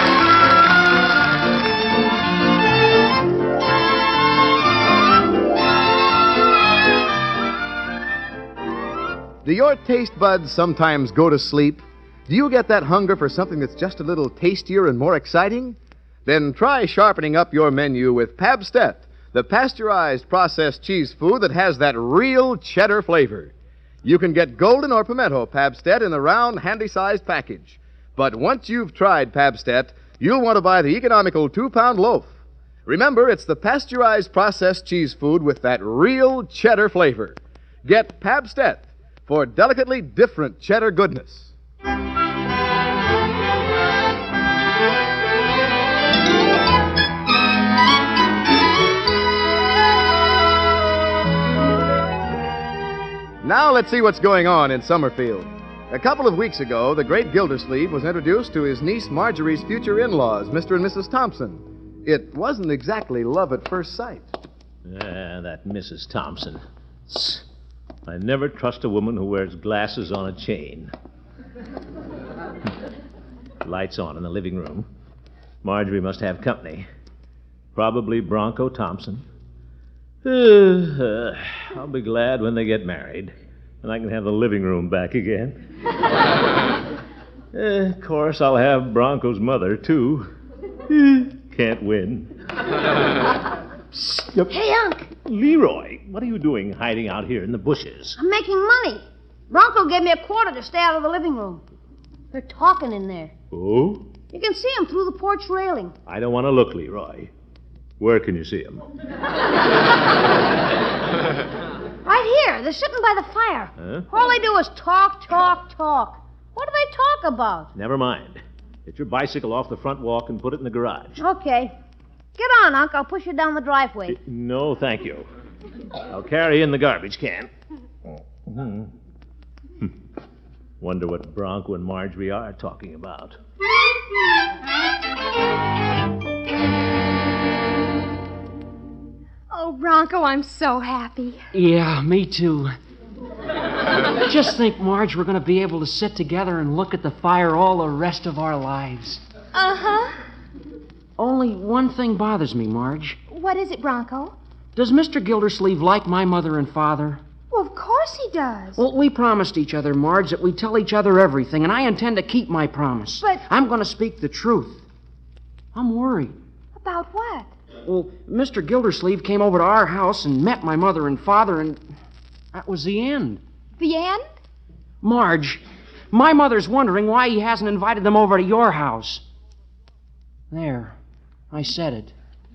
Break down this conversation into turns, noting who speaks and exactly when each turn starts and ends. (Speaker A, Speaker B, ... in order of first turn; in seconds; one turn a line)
Speaker A: 9.4-23.5
Speaker A: 24.0-32.3
Speaker A: 32.9-41.5
Speaker A: 53.4-64.3
Speaker B: 64.8-67.4
Speaker B: 68.1-70.9
Speaker B: 73.6-74.9
Speaker B: 75.6-76.9
Speaker B: 77.7-79.2
Speaker B: 80.2-85.6
Speaker B: 87.5-90.3
Speaker B: 90.9-92.3
Speaker B: 93.9-94.5
Speaker C: 94.5-95.1
Speaker B: 95.2-98.2
Speaker C: 98.2-101.6
Speaker C: 102.3-103.3
Speaker B: 103.5-104.1
Speaker C: 104.3-105.9
Speaker B: 106.0-107.3
Speaker B: 108.0-108.8
Speaker C: 112.0-117.7
Speaker B: 113.8-114.1
Speaker B: 117.7-121.2
Speaker C: 121.2-121.7
Speaker C: 122.3-124.2
Speaker B: 124.1-125.3
Speaker B: 126.1-127.5
Speaker B: 128.5-128.9
Speaker B: 130.8-133.4
Speaker D: 139.5-141.4
Speaker E: 141.5-142.7
Speaker E: 144.2-149.2
Speaker D: 149.5-150.2
Speaker E: 151.2-153.2
Speaker D: 153.3-154.3
Speaker E: 154.8-157.2
Speaker D: 157.5-158.8
Speaker E: 158.8-164.8
Speaker E: 165.7-166.3
Speaker D: 166.7-167.5
Speaker E: 167.8-171.8
Speaker E: 172.5-173.4
Speaker D: 173.8-174.2
Speaker E: 175.0-179.2
Speaker E: 180.5-181.0
Speaker E: 181.5-182.1